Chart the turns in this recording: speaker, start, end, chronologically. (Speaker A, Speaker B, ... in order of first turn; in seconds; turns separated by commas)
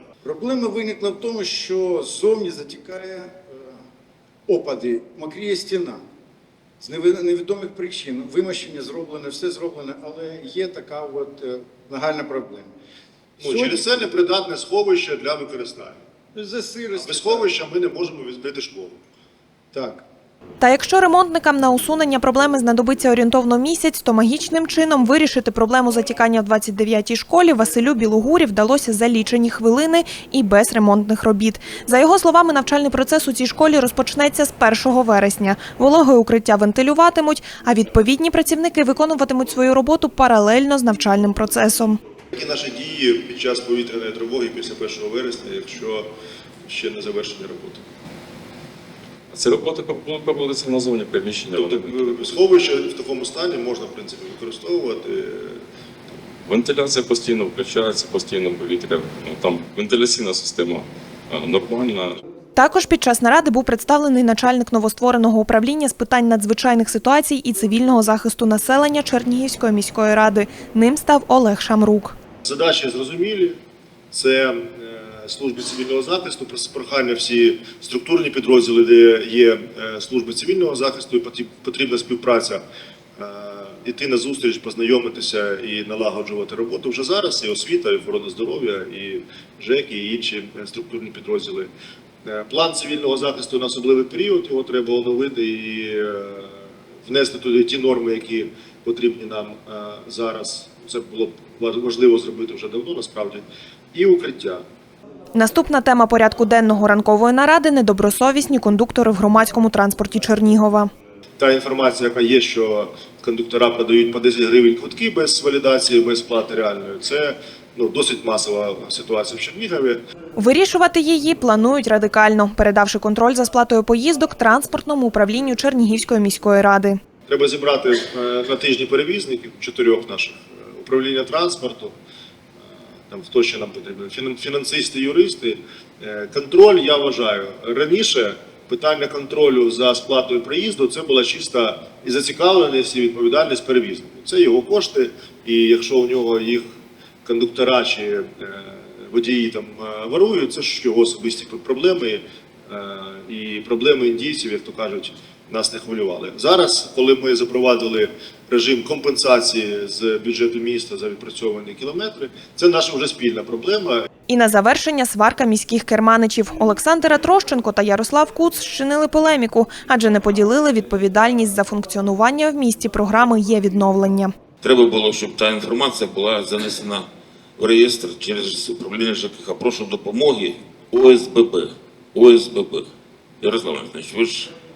Speaker A: 0.2-3.8, Speaker A: 4.5-6.0, Speaker A: 6.8-12.7, Speaker A: 13.4-13.9, Speaker B: 13.4-16.0, Speaker A: 16.3-17.5, Speaker B: 17.0-19.0, Speaker A: 19.7-20.0, Speaker C: 20.6-42.0, Speaker B: 42.3-46.1, Speaker B: 46.7-47.8, Speaker D: 49.3-52.2, Speaker B: 51.5-55.6, Speaker D: 56.5-62.2, Speaker C: 62.6-72.2, Speaker B: 72.4-73.6, Speaker B: 74.1-82.6, Speaker B: 83.2-91.7, Speaker B: 92.2-104.6, Speaker C: 105.3-110.9, Speaker B: 111.4-120.0, Speaker C: 120.4-127.0, Speaker B: 127.3-131.9, Speaker B: 133.1-146.6, Speaker B: 147.2-164.1, Speaker C: 164.3-174.3, Speaker E: 174.6-177.1, Speaker E: 177.6-182.9, Speaker E: 183.4-184.5